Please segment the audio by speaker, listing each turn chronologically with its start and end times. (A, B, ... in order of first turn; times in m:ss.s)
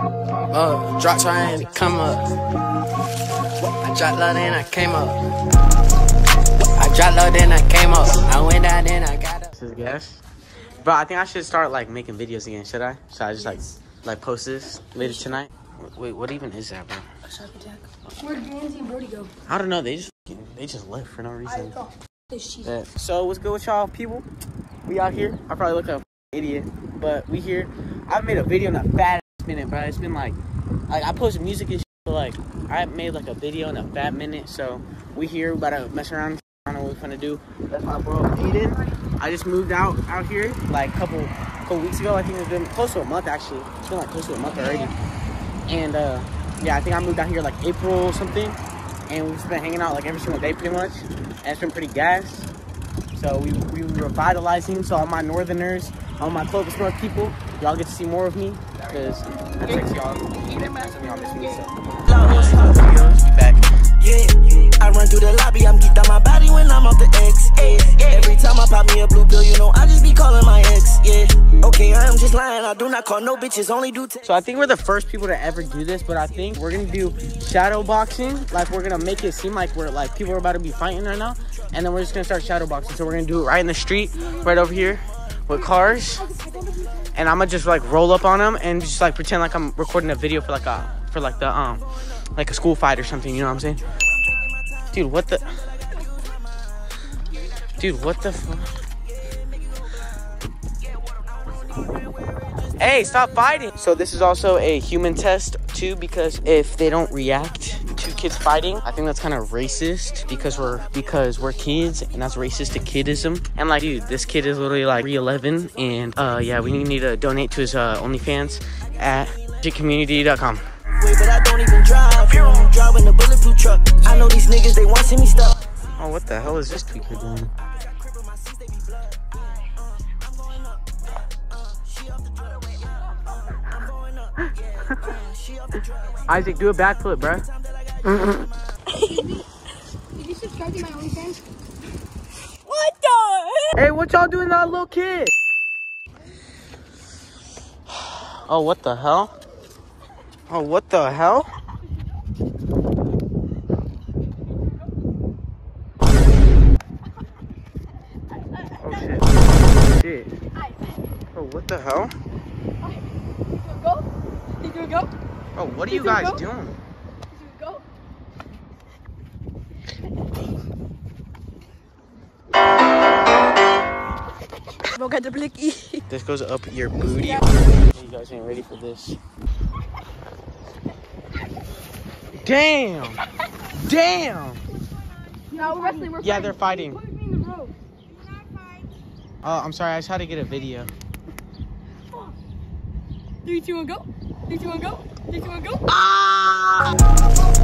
0:00.5-0:02.3 A
0:03.6-0:05.2 A
0:06.7-0:09.5 A
0:09.5-0:10.2 B
0:10.8-0:17.1 B
0:17.3-0:19.3 C
0:19.4-0:21.8 B
0:22.6-0:24.3 B
0:24.8-0:30.4 B
0:30.9-0:44.9 B
0:45.7-0:52.5 B
0:53.1-1:03.7 B
1:02.1-1:02.8 D
1:04.0-1:14.2 D
1:14.2-1:26.3 B
1:26.2-1:26.9 C
1:27.1-1:33.8 B
1:34.9-1:35.6 B
1:37.8-1:38.8 B
1:42.8-2:00.6 B
2:00.9-2:05.6 D
2:06.0-2:07.5 B
2:08.0-2:08.9 D
2:12.1-2:13.0 D
2:13.6-2:16.2 D
2:16.3-2:17.4 B
2:19.0-2:19.4 C
2:20.2-2:21.4 C
2:22.7-2:23.7 C
2:23.1-2:23.3 A
2:23.7-2:25.3 B
2:28.1-2:29.3 B
2:30.5-2:31.5 B
2:38.8-2:40.3 B
2:41.3-2:42.1 B
2:43.6-2:44.0 C
2:44.6-2:45.1 C
2:45.5-2:46.7 B
2:45.9-2:46.4 C
2:47.3-2:47.8 C
2:54.9-2:56.0 C
2:56.1-2:59.2 B
3:02.3-3:04.6 B
3:05.5-3:08.8 C
3:06.2-3:07.0 B
3:09.4-3:10.9 B
3:13.4-3:15.8 C
3:16.0-3:16.6 B